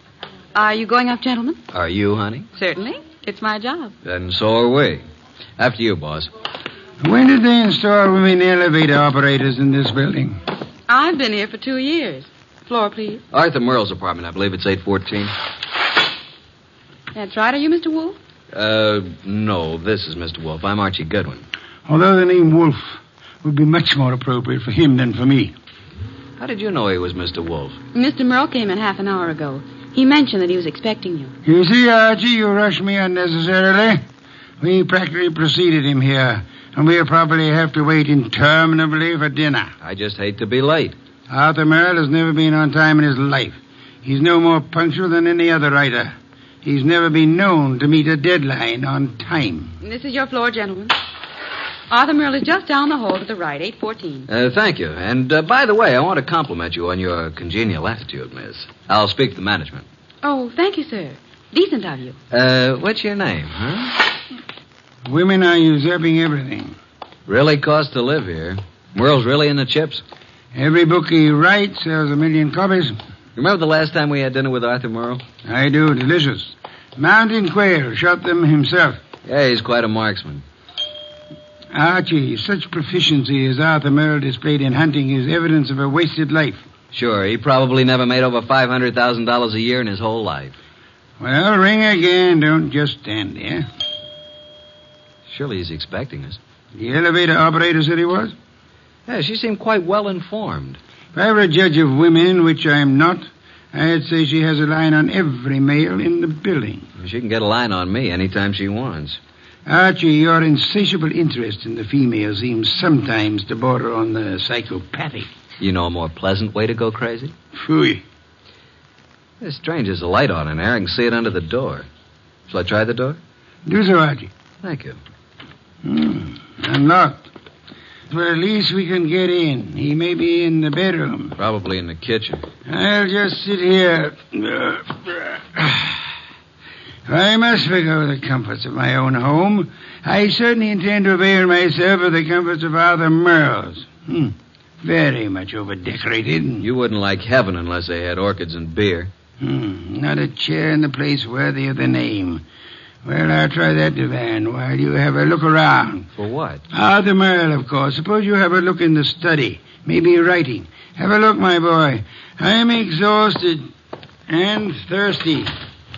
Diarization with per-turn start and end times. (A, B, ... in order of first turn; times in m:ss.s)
0:00.5-0:01.6 A
0:01.7-0:02.5 B
0:02.6-0:03.9 A
0:04.0-0:05.0 B
0:05.6-0:06.3 B
0:07.0-0:10.4 C
0:10.9-0:13.2 A
0:13.3-0:15.3 B
0:17.1-0:18.2 A
0:18.5-0:21.4 B
0:21.9-0:25.5 C
0:26.4-0:27.8 B
0:28.0-0:31.3 A
0:31.4-0:34.0 C
0:34.6-0:39.7 C
0:39.8-0:41.0 B
0:41.3-0:49.7 C
0:49.8-0:51.0 A
0:51.9-0:54.3 A
0:54.3-0:59.9 B
1:00.2-1:02.2 A
1:02.3-1:04.0 B
1:05.1-1:06.8 C
1:07.3-1:10.0 B
1:10.5-1:13.0 C
1:13.4-1:15.2 B
1:15.5-1:19.0 C
1:19.2-1:20.4 B
1:21.7-1:26.6 C
1:26.9-1:30.6 B
1:31.2-1:33.7 C
1:35.3-1:36.4 B
1:36.8-1:38.4 C
1:39.1-1:40.8 B
1:41.1-1:46.9 C
1:47.0-1:49.2 B
1:49.7-1:55.3 C
1:55.6-1:57.4 B
1:57.6-1:58.0 C
1:59.4-2:01.9 B
2:02.5-2:03.2 B
2:03.7-2:04.3 C
2:04.6-2:05.0 B
2:05.8-2:07.2 C
2:08.1-2:11.4 C
2:11.4-2:12.4 B
2:12.7-2:16.0 C
2:17.1-2:26.7 C
2:26.6-2:29.1 B
2:29.4-2:32.4 C
2:33.0-2:36.1 C
2:36.1-2:36.6 B
2:36.7-2:43.7 C
2:44.3-2:45.5 C